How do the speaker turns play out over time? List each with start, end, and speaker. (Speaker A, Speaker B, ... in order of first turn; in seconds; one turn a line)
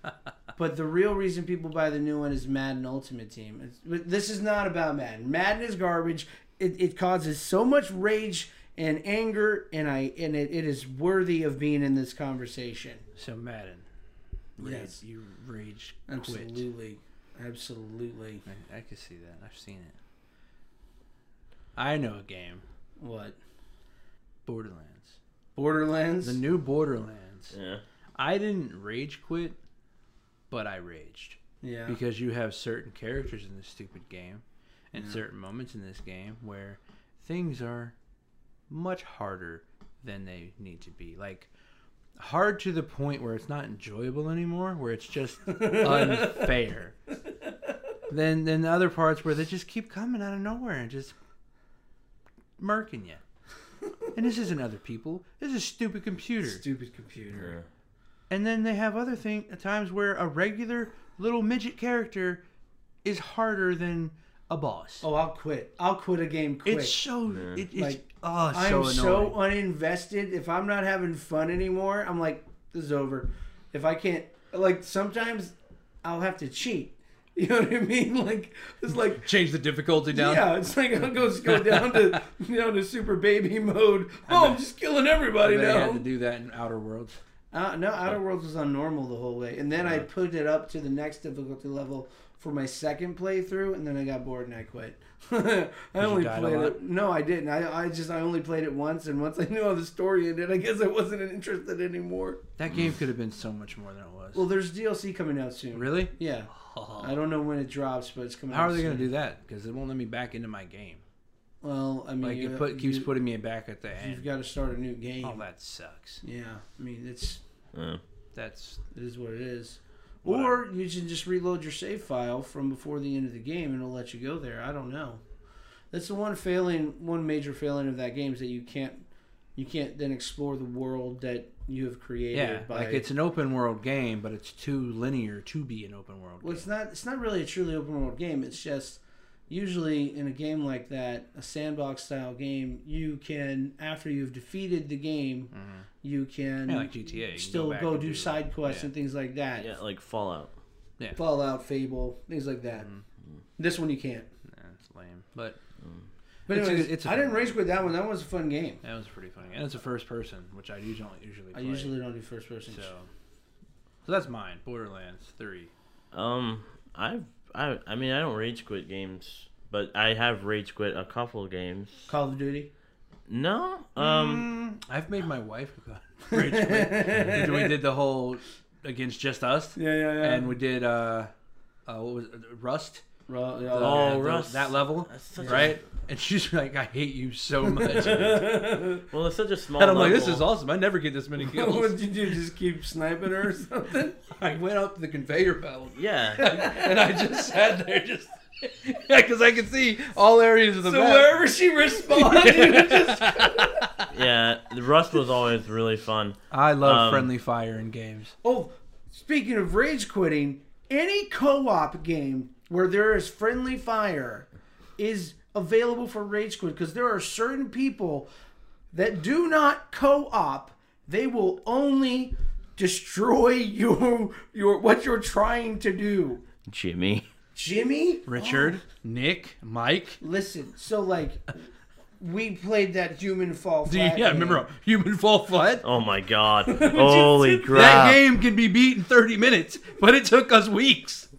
Speaker A: 0.6-13.0
Speaker B: 13.2-13.8
Speaker B: 14.6-16.7
Speaker A: 14.6-15.0
Speaker A: 16.1-18.4
Speaker B: 18.5-20.0
Speaker B: 21.8-22.6
Speaker A: 23.0-23.4
Speaker B: 24.4-25.2
Speaker A: 25.6-26.4
Speaker B: 26.2-27.5
Speaker C: 27.5-27.8
Speaker B: 28.2-29.6
Speaker B: 30.5-38.0
Speaker A: 31.6-32.0
Speaker A: 34.9-35.2
Speaker B: 38.7-41.5
Speaker B: 42.2-47.0
Speaker A: 45.5-46.5
Speaker B: 48.1-51.1
Speaker B: 52.6-53.2
Speaker B: 54.1-56.6
Speaker A: 56.4-57.5
Speaker C: 57.4-57.6
Speaker B: 58.3-62.4
Speaker B: 63.0-65.1
Speaker A: 65.0-67.0
Speaker B: 66.7-69.4
Speaker C: 67.3-67.6
Speaker A: 67.7-79.3
Speaker B: 78.9-80.5
Speaker A: 80.1-86.1
Speaker B: 81.4-82.2
Speaker B: 84.3-84.7
Speaker B: 85.4-87.2
Speaker A: 87.5-102.4
Speaker B: 96.0-96.8
Speaker B: 102.6-104.5
Speaker A: 104.3-109.1
Speaker B: 105.7-107.2
Speaker B: 108.5-111.0
Speaker A: 111.6-113.1
Speaker B: 112.2-114.3
Speaker A: 114.0-115.5
Speaker B: 115.2-116.2
Speaker A: 116.2-117.4
Speaker C: 117.7-118.0
Speaker B: 118.3-118.8
Speaker A: 118.9-125.2
Speaker B: 120.2-120.6
Speaker A: 125.9-129.1
Speaker A: 129.6-133.1
Speaker B: 132.3-136.7
Speaker A: 136.4-149.7
Speaker B: 145.5-145.9
Speaker B: 146.7-148.9
Speaker C: 149.6-150.5
Speaker A: 151.2-152.9
Speaker B: 152.8-153.0
Speaker A: 153.6-154.3
Speaker B: 154.5-155.6
Speaker B: 156.5-157.6
Speaker A: 156.5-158.8
Speaker B: 158.8-161.9
Speaker A: 161.5-162.9
Speaker B: 162.7-163.1
Speaker B: 164.1-165.7
Speaker C: 166.1-172.1
Speaker A: 172.1-172.7
Speaker C: 173.3-174.5
Speaker B: 174.0-181.3
Speaker A: 176.3-177.8
Speaker A: 179.8-180.6
Speaker B: 181.9-183.1
Speaker A: 183.3-184.2
Speaker B: 183.7-188.5
Speaker C: 183.8-185.8
Speaker A: 185.4-185.8
Speaker A: 187.7-189.0
Speaker C: 189.1-190.5
Speaker B: 189.8-192.1
Speaker A: 191.4-194.2
Speaker B: 194.3-201.3
Speaker C: 196.0-196.6
Speaker A: 196.4-197.4
Speaker A: 200.8-203.9
Speaker B: 202.0-204.0
Speaker C: 204.1-207.3
Speaker B: 206.5-208.3
Speaker A: 208.4-214.5
Speaker A: 215.0-218.3
Speaker A: 218.9-226.4
Speaker C: 226.7-227.2
Speaker A: 227.6-228.8
Speaker B: 228.3-230.2
Speaker A: 230.2-231.6
Speaker A: 232.2-234.7
Speaker B: 233.8-235.8
Speaker C: 235.8-238.2
Speaker A: 236.7-238.1
Speaker B: 237.7-241.3